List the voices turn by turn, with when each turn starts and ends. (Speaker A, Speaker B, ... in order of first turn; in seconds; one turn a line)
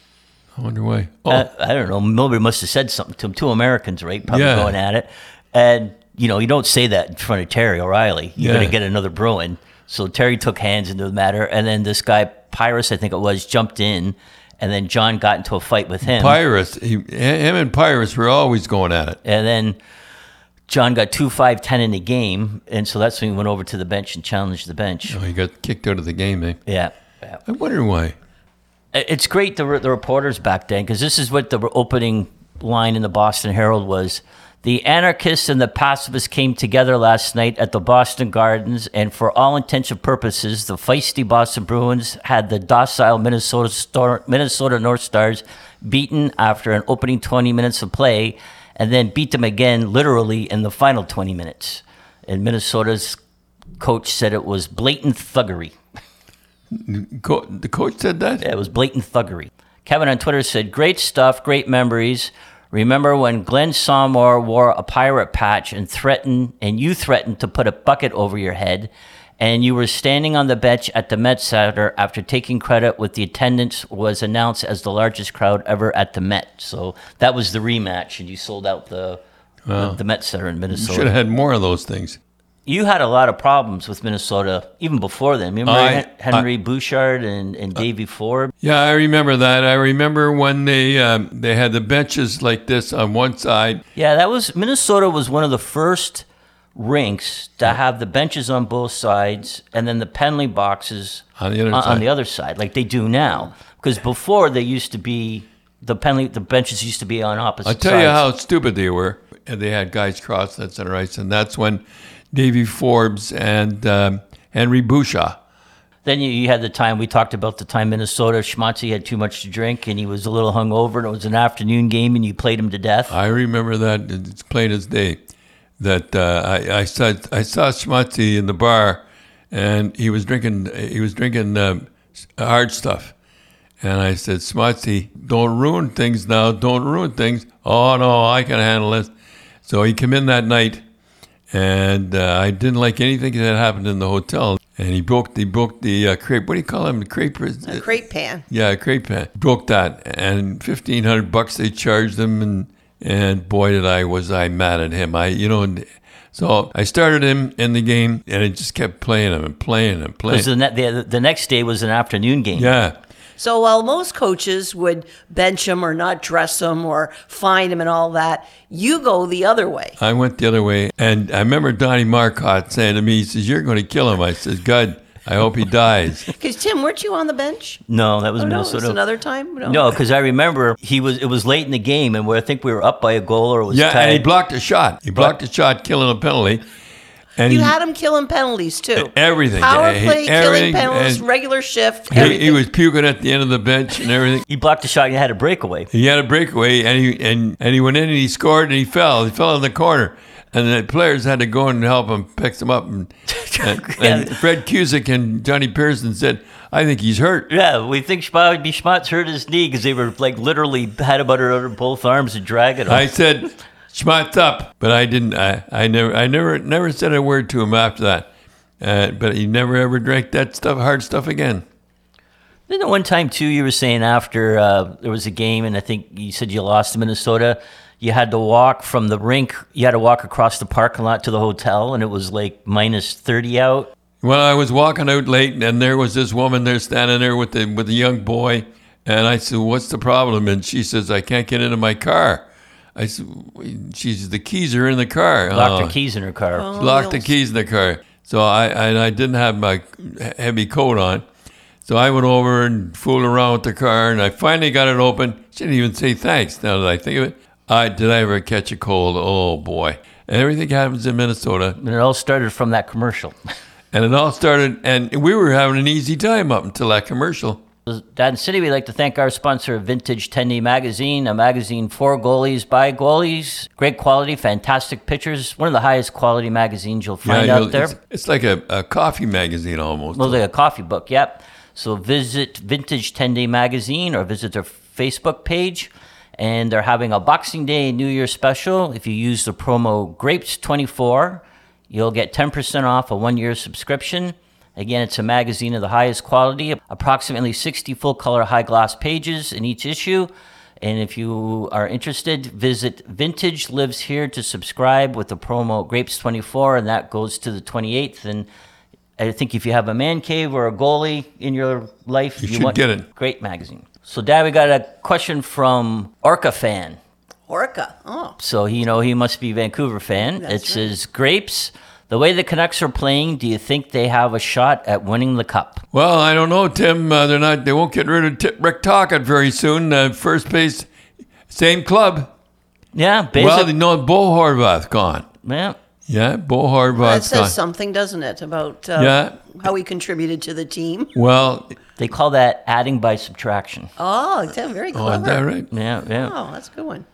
Speaker A: 0.6-1.5
Speaker B: 1.3-16.4
Speaker A: 4.3-4.8
Speaker A: 8.4-8.8
Speaker A: 16.0-19.2
Speaker B: 19.2-19.8
Speaker B: 20.7-25.2
Speaker A: 25.1-26.6
Speaker B: 26.7-27.4
Speaker A: 27.5-28.1
Speaker B: 28.9-53.2
Speaker B: 53.8-55.7
Speaker A: 56.7-58.4
Speaker B: 58.4-79.2
Speaker A: 79.7-80.0
Speaker B: 79.7-81.1
Speaker A: 80.7-82.2
Speaker B: 82.7-88.5
Speaker A: 85.7-86.5
Speaker A: 88.6-93.8
Speaker B: 94.0-96.2
Speaker B: 96.8-108.2
Speaker A: 101.4-102.0
Speaker A: 107.6-115.4
Speaker B: 116.0-123.1
Speaker A: 123.1-125.2
Speaker A: 125.8-133.1
Speaker A: 133.8-139.1
Speaker A: 139.7-140.8
Speaker A: 141.5-147.9
Speaker C: 147.7-148.4
Speaker A: 148.5-160.5
Speaker B: 160.3-162.7
Speaker A: 162.5-162.9
Speaker C: 163.4-170.0
Speaker A: 170.0-176.3
Speaker C: 176.3-177.8
Speaker B: 177.9-179.0
Speaker C: 178.4-180.0
Speaker B: 179.6-184.3
Speaker A: 183.7-186.6
Speaker A: 187.4-187.7
Speaker C: 187.4-192.6
Speaker A: 188.9-191.2
Speaker A: 192.1-194.4
Speaker B: 194.5-195.9
Speaker A: 195.9-207.5
Speaker B: 203.3-204.4
Speaker B: 207.5-213.1
Speaker A: 212.9-218.3
Speaker A: 218.8-221.6
Speaker B: 222.7-233.9
Speaker A: 234.2-242.4
Speaker A: 242.9-245.9
Speaker B: 245.5-246.8
Speaker C: 246.5-247.3
Speaker A: 246.8-251.2
Speaker A: 251.8-261.8
Speaker B: 261.8-263.3
Speaker A: 263.9-267.6
Speaker B: 267.9-277.9
Speaker A: 277.2-280.4
Speaker B: 280.1-308.5
Speaker B: 309.2-317.0
Speaker A: 312.4-313.0
Speaker C: 317.5-318.4
Speaker B: 318.4-325.8
Speaker C: 320.4-320.9
Speaker A: 325.9-330.9
Speaker A: 331.5-332.3
Speaker B: 332.9-333.7
Speaker A: 333.3-335.2
Speaker B: 335.4-335.8
Speaker A: 336.1-337.5
Speaker C: 336.9-341.1
Speaker A: 338.9-339.6
Speaker A: 341.1-341.8
Speaker B: 342.0-343.9
Speaker C: 344.0-345.4
Speaker A: 344.9-345.7
Speaker B: 345.7-346.3
Speaker C: 346.2-347.0